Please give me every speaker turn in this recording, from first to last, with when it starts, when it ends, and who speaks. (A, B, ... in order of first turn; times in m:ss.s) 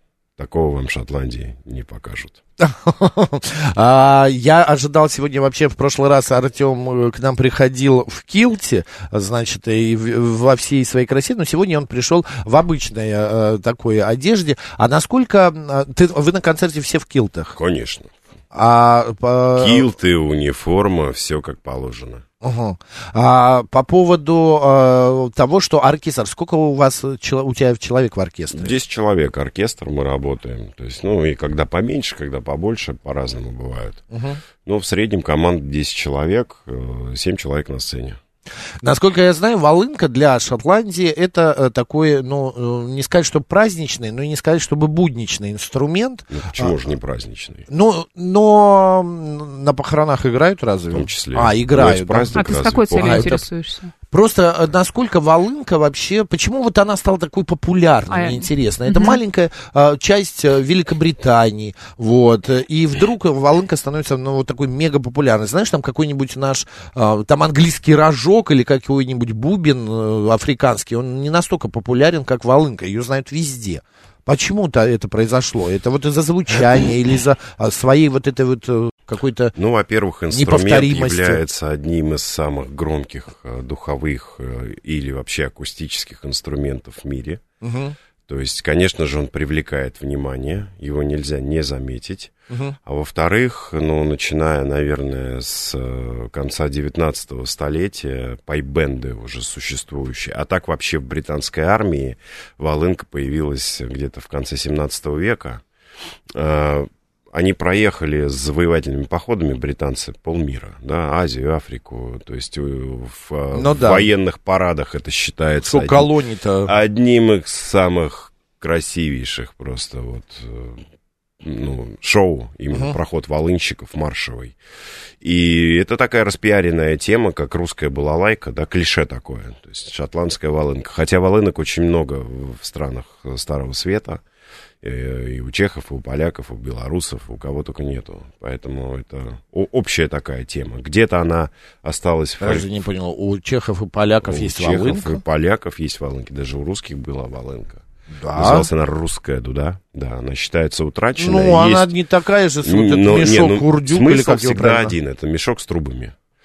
0:00.4-0:02.4 A
0:02.6-0:17.6 B
0:17.6-0:18.1 A
0:18.5-0:19.9 B
0:19.6-0:22.2 A
0:22.4-0:28.7 B
0:28.5-0:34.0 A
0:34.1-0:34.4 B
0:34.6-0:38.2 A
0:38.8-0:46.8 B
0:46.3-0:47.7 A
0:47.7-0:53.4 B
0:50.9-0:53.4 A
0:52.4-0:53.9 C
0:54.1-1:19.6 B
0:58.1-0:59.2 C
1:19.6-1:27.4 A
1:20.3-1:21.4 B
1:27.6-1:28.0 B
1:28.3-1:32.3 A
1:32.5-1:32.8 B
1:32.8-1:45.6 A
1:46.3-1:56.1 A
1:53.5-1:54.1 B
1:55.6-1:56.7 B
1:56.6-2:00.8 A
2:01.4-2:04.6 A
2:05.2-2:14.2 A
2:14.8-2:22.7 A
2:22.4-2:25.2 B
2:24.2-2:27.8 A
2:28.2-2:28.7 B
2:28.4-2:31.9 A
2:31.2-2:34.9 B
2:32.6-2:36.2 A